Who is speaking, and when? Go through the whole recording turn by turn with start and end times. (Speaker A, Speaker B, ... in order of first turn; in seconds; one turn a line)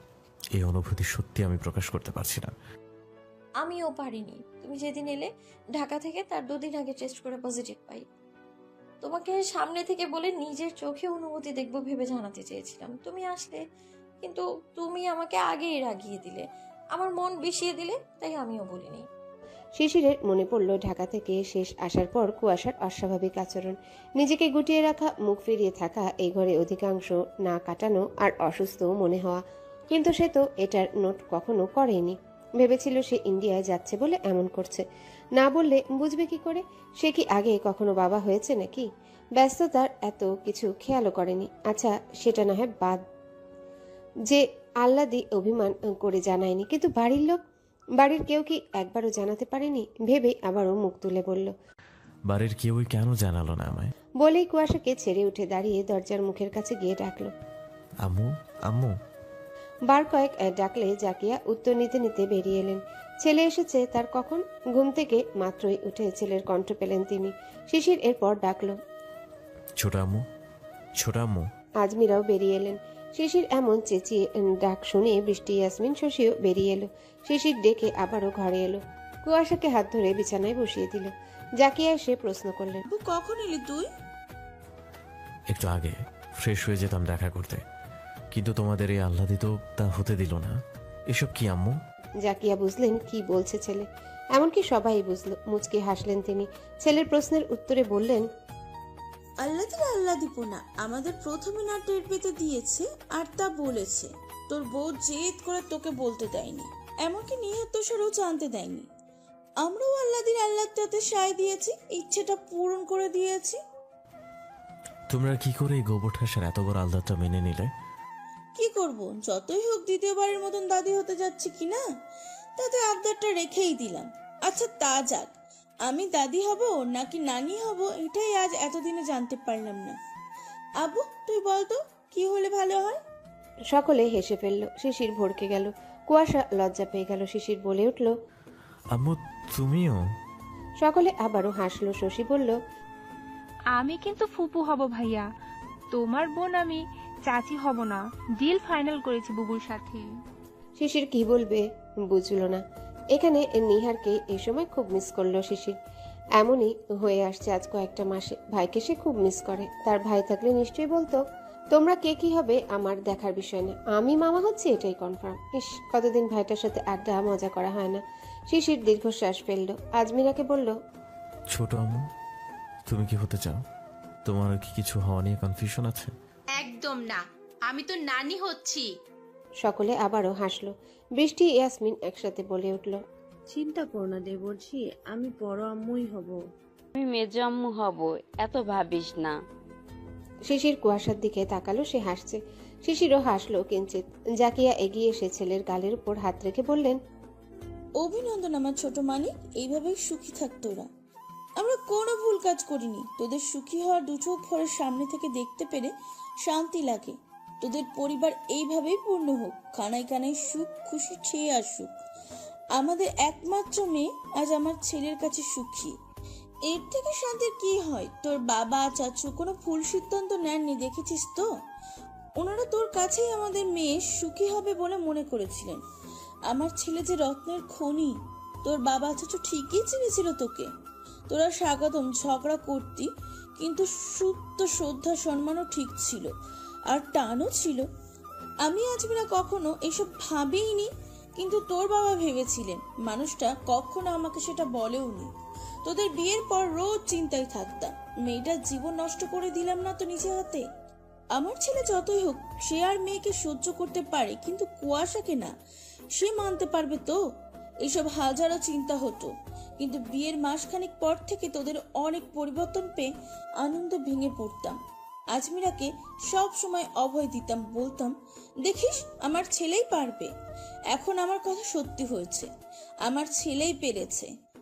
Speaker A: 0.6-2.5
Speaker B: 3.6-8.0
Speaker B: 9.0-13.6
Speaker B: 14.2-19.0
Speaker C: 19.8-34.8
Speaker C: 35.4-43.0
Speaker C: 44.3-47.4
Speaker C: 48.0-51.5
Speaker A: 52.3-53.9
Speaker C: 54.2-57.3
Speaker A: 58.0-58.9
Speaker C: 59.9-68.8
Speaker A: 69.8-70.2
Speaker A: 71.0-71.4
Speaker C: 71.8-82.8
Speaker D: 82.9-83.9
Speaker A: 85.5-87.6
Speaker A: 88.3-90.5
Speaker A: 91.1-91.8
Speaker C: 92.2-98.2
Speaker D: 99.4-108.9
Speaker D: 109.6-113.6
Speaker A: 115.1-117.7
Speaker D: 118.6-121.8
Speaker D: 122.6-125.3
Speaker D: 125.8-129.9
Speaker D: 130.8-133.0
Speaker C: 133.7-138.1
Speaker A: 138.9-139.9
Speaker C: 140.8-142.6
Speaker E: 143.7-145.2
Speaker E: 145.9-150.0
Speaker C: 150.8-152.6
Speaker C: 153.1-155.8
Speaker C: 156.4-161.2
Speaker C: 161.7-170.8
Speaker A: 171.5-172.0
Speaker A: 172.9-173.6
Speaker A: 174.2-176.1
Speaker F: 176.6-178.9
Speaker C: 179.6-183.0
Speaker G: 183.5-186.4
Speaker H: 186.9-189.4
Speaker C: 190.5-197.0
Speaker D: 198.0-200.9
Speaker D: 201.6-205.9
Speaker D: 206.4-211.9
Speaker D: 212.8-215.9
Speaker D: 216.7-221.5
Speaker D: 222.4-225.8
Speaker D: 226.5-228.1
Speaker D: 228.6-230.7
Speaker D: 231.3-236.3
Speaker D: 236.9-237.8
Speaker D: 238.6-245.3
Speaker D: 245.8-250.6
Speaker D: 251.3-255.5
Speaker D: 256.1-257.2
Speaker D: 257.9-263.1
Speaker D: 263.6-264.8
Speaker D: 265.3-268.1
Speaker D: 268.6-270.3
Speaker D: 270.9-272.5
Speaker D: 273.0-274.3